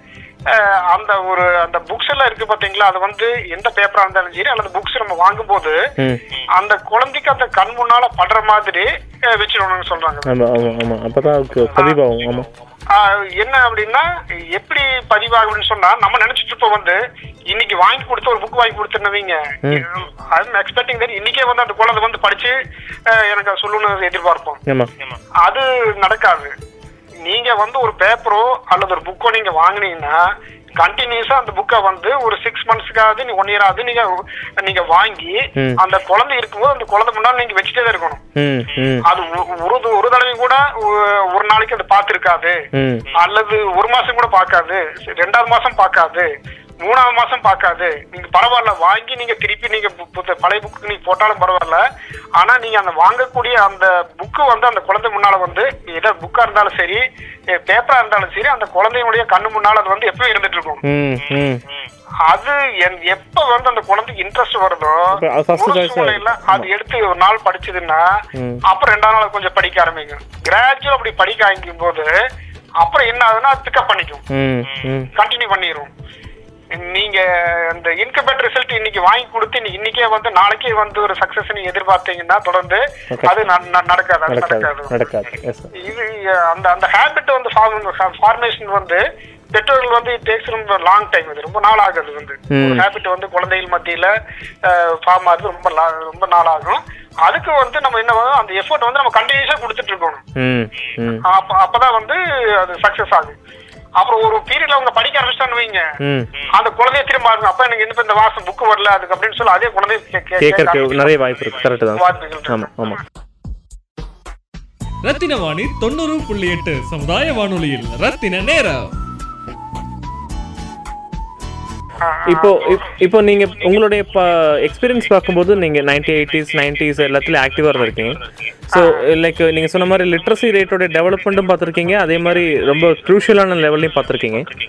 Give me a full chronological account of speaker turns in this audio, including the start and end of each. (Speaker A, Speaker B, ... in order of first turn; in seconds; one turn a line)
Speaker A: 0.5-5.8
Speaker A: 6.6-10.3
Speaker B: 10.2-12.5
Speaker A: 12.9-22.6
Speaker A: 23.1-24.6
Speaker A: 25.4-26.5
Speaker A: 27.2-30.2
Speaker A: 30.8-38.2
Speaker B: 38.4-39.0
Speaker A: 39.0-42.6
Speaker B: 42.7-43.1
Speaker A: 43.1-46.3
Speaker A: 46.8-51.8
Speaker A: 52.4-60.8
Speaker B: 60.8-61.6
Speaker A: 62.2-72.1
Speaker B: 65.1-66.7
Speaker B: 68.3-68.6
Speaker A: 72.8-74.2
Speaker B: 74.3-75.1
Speaker A: 75.1-75.9
Speaker A: 76.7-84.9
Speaker B: 83.1-83.4
Speaker B: 84.3-85.7
Speaker A: 85.7-94.1
Speaker B: 92.5-92.8
Speaker A: 94.6-100.2
Speaker B: 100.3-101.2
Speaker A: 101.2-103.3
Speaker A: 104.0-105.9
Speaker B: 106.0-106.3
Speaker A: 106.5-111.1
Speaker B: 110.4-113.0
Speaker A: 111.9-112.7
Speaker C: 115.0-118.9
Speaker A: 122.0-122.8
Speaker B: 122.2-128.2
Speaker B: 128.7-134.4
Speaker A: 128.7-129.0